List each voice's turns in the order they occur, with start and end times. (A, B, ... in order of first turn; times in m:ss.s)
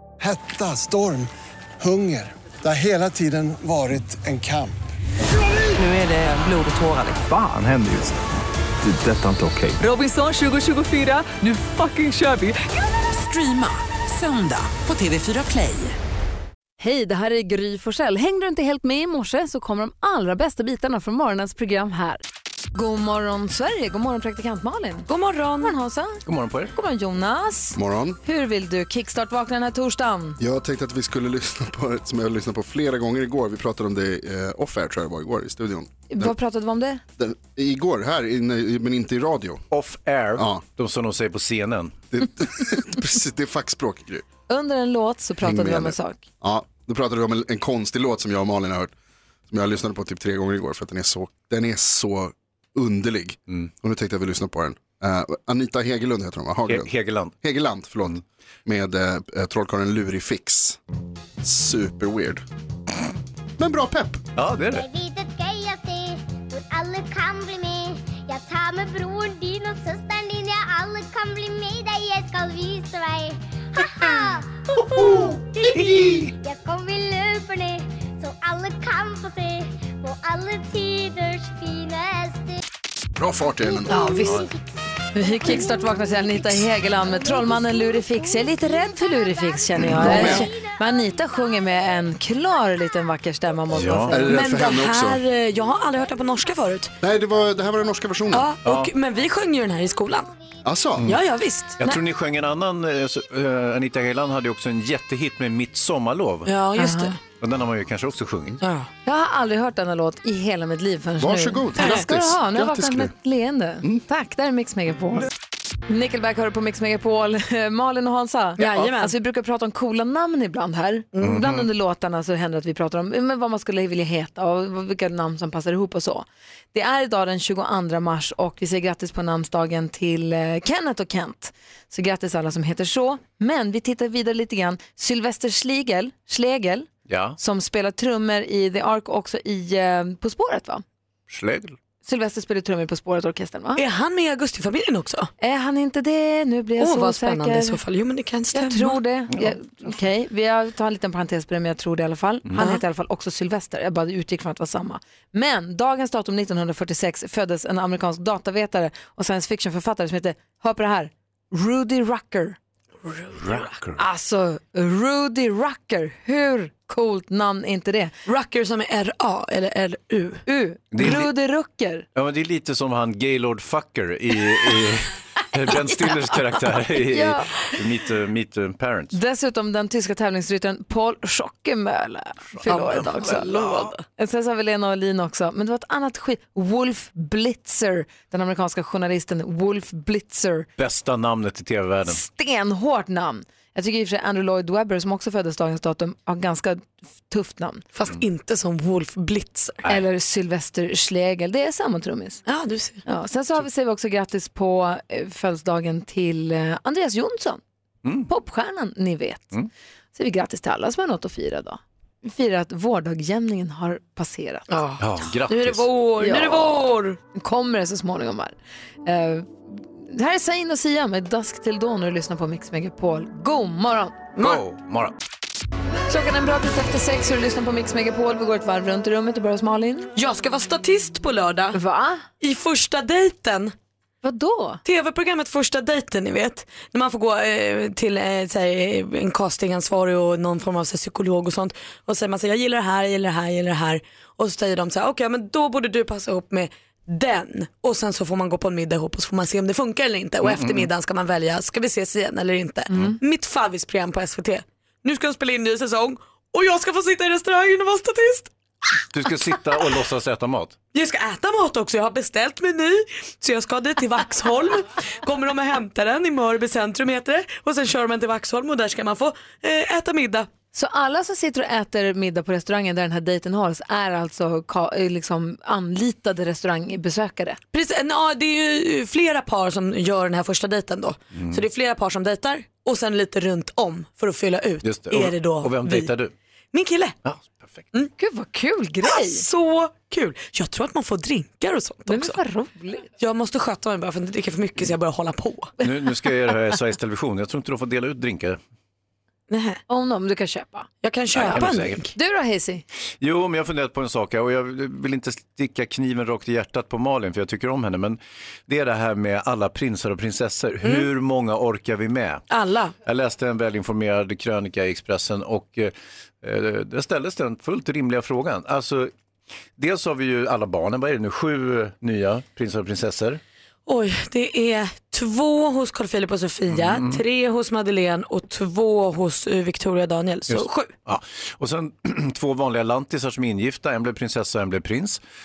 0:00.2-0:01.3 A
0:01.8-0:04.8 A
0:05.9-0:07.2 B
0:07.2-0:08.2 C
0:08.8-0:09.8 C
0:09.8-0:16.0 B
0:16.8-0:22.2 D
0:22.7-0:25.1 D
0:25.1-0:25.7 E
0:25.6-0:26.2 D
0:26.2-0:26.7 F
0:26.7-0:30.4 D
0:27.7-0:28.2 G
0:30.4-0:36.3 G
0:36.1-0:37.0 D
0:37.2-0:39.6 G
0:39.7-0:42.0 F
0:40.4-0:40.6 G
0:42.1-0:44.2 G
0:44.5-0:46.2 D
0:45.4-0:48.9 G
0:49.5-0:56.9 G
0:56.7-0:57.3 F
0:57.4-1:00.8 G
1:01.4-1:02.4 G
1:03.6-1:04.2 G
1:04.4-1:04.8 F
1:04.7-1:22.6 H
1:23.2-1:24.0 G
1:23.6-1:31.4 H
1:23.9-1:24.3 D
1:25.1-1:34.3 D
1:29.9-1:30.5 G
1:33.7-1:34.4 F
1:34.1-1:35.2 G
1:34.3-1:36.9 E
1:37.0-1:38.5 G
1:38.3-1:40.3 E
1:38.6-1:38.9 F
1:40.6-1:41.2 G
1:41.1-1:41.8 E
1:41.8-1:46.5 F
1:46.4-1:47.2 E
1:46.8-1:47.1 D
1:47.4-1:48.6 F
1:48.6-1:48.9 E
1:49.0-1:55.2 D
1:51.2-1:53.1 G
1:55.9-2:16.9 D
1:58.6-1:59.1 E
2:01.2-2:01.6 F
2:17.1-2:17.4 F
2:17.4-2:20.8 D
2:21.3-2:21.8 F
2:22.0-2:23.8 D
2:23.8-2:25.3 E
2:25.4-2:27.8 D
2:26.8-2:29.0 E
2:28.5-2:42.6 D
2:43.0-2:43.7 E
2:43.4-2:44.0 F
2:44.0-2:48.1 D
2:48.3-2:50.4 E
2:50.5-2:52.0 D
2:50.9-2:51.3 F
2:52.1-2:59.1 F
2:57.0-2:57.6 D
2:59.1-3:10.7 D
3:02.5-3:03.9 F
3:02.7-3:04.0 E
3:10.8-3:12.2 F
3:12.0-3:17.9 D
3:17.9-3:19.8 E
3:19.8-3:22.4 D
3:22.4-3:23.0 E
3:23.0-3:27.6 D
3:28.0-3:28.3 F
3:28.3-3:29.6 D
3:30.1-3:34.7 D
3:34.7-3:37.2 E
3:35.0-3:35.9 F
3:36.2-3:44.2 D
3:44.4-3:44.6 E
3:44.4-3:45.1 F
3:46.1-3:50.1 D
3:50.1-3:51.8 E
3:51.7-3:52.2 D
3:52.4-3:53.7 E
3:54.2-3:54.8 D
3:54.8-4:18.5 E
4:10.4-4:10.9 F
4:19.1-4:20.8 F
4:20.9-4:30.5 E
4:30.7-4:37.6 D
4:37.7-4:46.1 E
4:41.3-4:41.6 F
4:44.8-4:46.3 F
4:46.7-4:47.1 E
4:47.2-4:47.8 F
4:48.2-4:49.4 D
4:49.0-4:52.4 E
4:52.1-4:53.0 D
4:53.2-4:55.7 E
4:55.8-4:58.6 F
4:59.5-4:59.8 E
4:59.9-5:02.8 D
5:01.0-5:02.1 E
5:01.4-5:02.1 F
5:03.2-5:12.4 F
5:12.5-5:12.9 E
5:13.0-5:19.1 F
5:19.8-5:23.4 F
5:23.9-5:30.9 E
5:26.7-5:27.2 F
5:30.5-5:35.2 F